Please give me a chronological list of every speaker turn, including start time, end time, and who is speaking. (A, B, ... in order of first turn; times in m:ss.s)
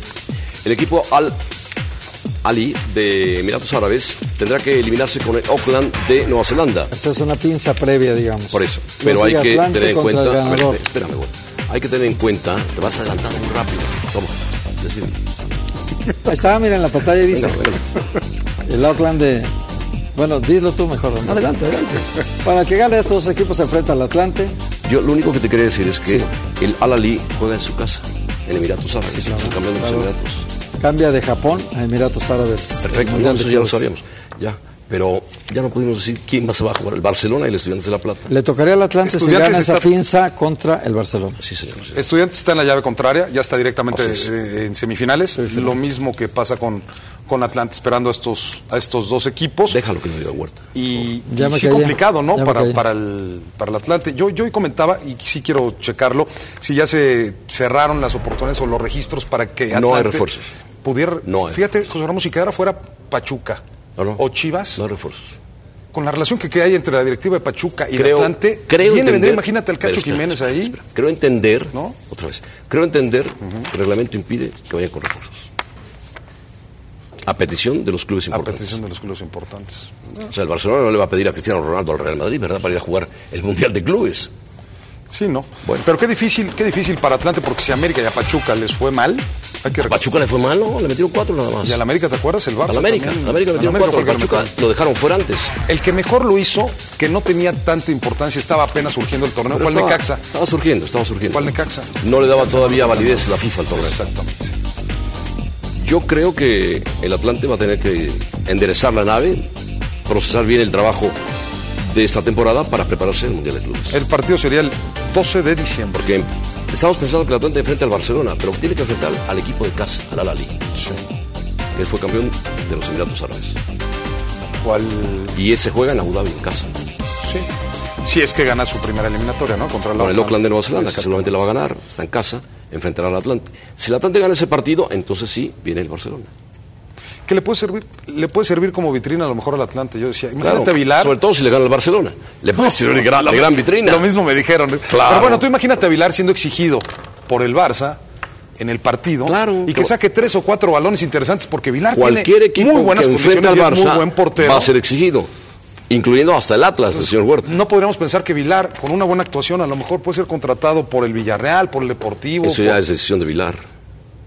0:00.6-0:01.4 A
0:02.4-0:06.9 A
0:06.9-0:10.8 B
0:08.5-0:15.2 A
0:16.2-0:17.6 B
0:17.3-0:18.0 A
0:18.7-0:19.5 B
0:20.1-0:21.4 B
0:21.2-0:22.2 A
0:22.4-0:24.5 B
0:24.8-0:30.5 A
0:29.1-0:30.1 B
0:30.8-0:33.8 B
0:32.8-0:38.3 A
0:38.3-0:41.4 B
0:39.0-0:39.9 C
0:41.4-0:42.0 A
0:41.9-0:49.8 C
0:43.9-0:44.3 A
0:45.4-0:45.8 B
0:49.7-0:50.6 A
0:50.7-1:00.3 C
0:51.3-0:52.8 B
0:59.7-1:00.6 A
1:00.8-1:03.6 C
1:01.2-1:01.6 A
1:04.0-1:04.2 A
1:04.2-1:04.8 C
1:04.8-1:05.3 A
1:05.9-1:10.8 C
1:07.9-1:15.5 A
1:17.2-1:18.8 A
1:18.3-1:20.3 C
1:20.3-1:24.3 A
1:25.1-1:30.0 C
1:29.8-1:31.8 A
1:31.6-1:34.5 C
1:32.7-1:35.5 A
1:35.6-1:40.2 C
1:39.5-1:44.0 A
1:41.3-1:44.5 C
1:45.8-1:49.5 A
1:50.0-1:51.2 A
1:51.8-1:54.0 A
1:53.9-1:56.2 C
1:55.9-2:00.6 A
2:00.7-2:01.0 C
2:01.7-2:03.6 A
2:04.6-2:05.3 C
2:05.3-2:06.9 A
2:07.2-2:07.5 C
2:08.0-2:11.4 C
2:10.0-2:16.3 A
2:17.2-2:21.2 C
2:20.4-2:24.1 A
2:22.5-2:28.0 C
2:24.9-2:25.4 A
2:28.6-2:34.7 C
2:29.2-2:29.9 A
2:31.9-2:35.3 A
2:35.9-2:37.5 A
2:36.9-2:42.8 C
2:42.4-2:43.6 A